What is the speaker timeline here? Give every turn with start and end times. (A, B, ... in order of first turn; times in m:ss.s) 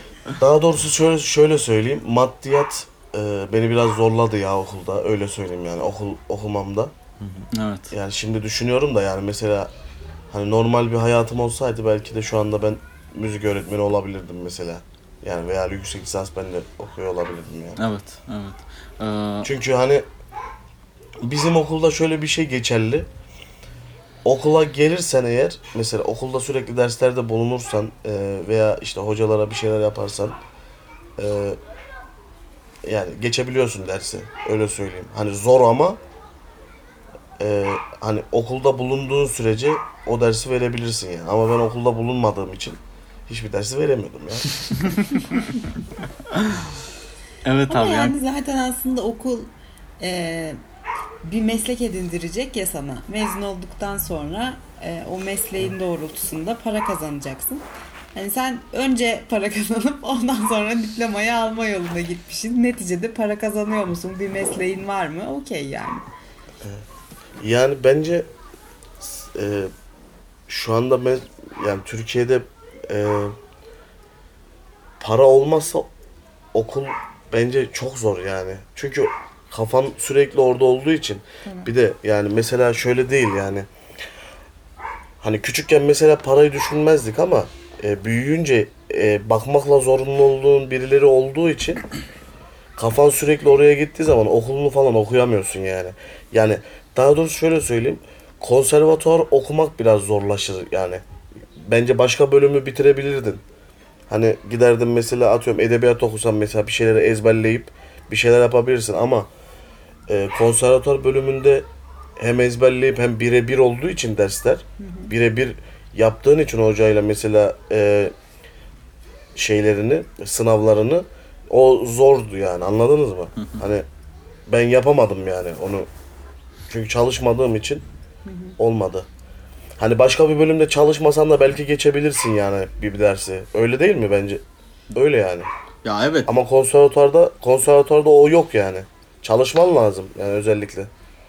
0:00.4-0:06.9 A
0:07.5-0:07.9 B
0:07.9-0:09.7 A
0:10.3-0:17.8 A
0:17.8-0:19.5 B
0:19.4-0:20.0 A
0:21.2-0:23.1 A
0:24.2-0:30.4 A
0:31.2-0:31.6 A
0:32.8-0:36.0 A
0:37.4-0:44.6 A
0:44.8-0:45.4 B
0:46.3-0:46.6 B
0:47.4-0:48.2 B
0:47.7-0:50.6 C
0:51.2-1:06.1 C
1:07.4-1:08.3 A
1:09.0-1:09.7 A
1:10.5-1:13.3 A
1:15.0-1:15.9 A
1:16.5-1:23.7 A
1:25.2-1:31.8 A
1:32.8-1:41.0 A
1:41.6-1:43.4 A
1:44.1-1:49.3 A
1:50.1-1:51.7 A
1:52.2-1:58.1 A
1:54.8-1:55.1 C
1:59.4-2:03.9 A
2:04.5-2:05.9 A
2:06.7-2:07.8 A
2:08.3-2:08.5 C
2:08.6-2:09.1 A
2:09.8-2:14.4 A
2:14.9-2:15.5 A
2:15.8-2:16.3 B
2:16.3-2:20.9 A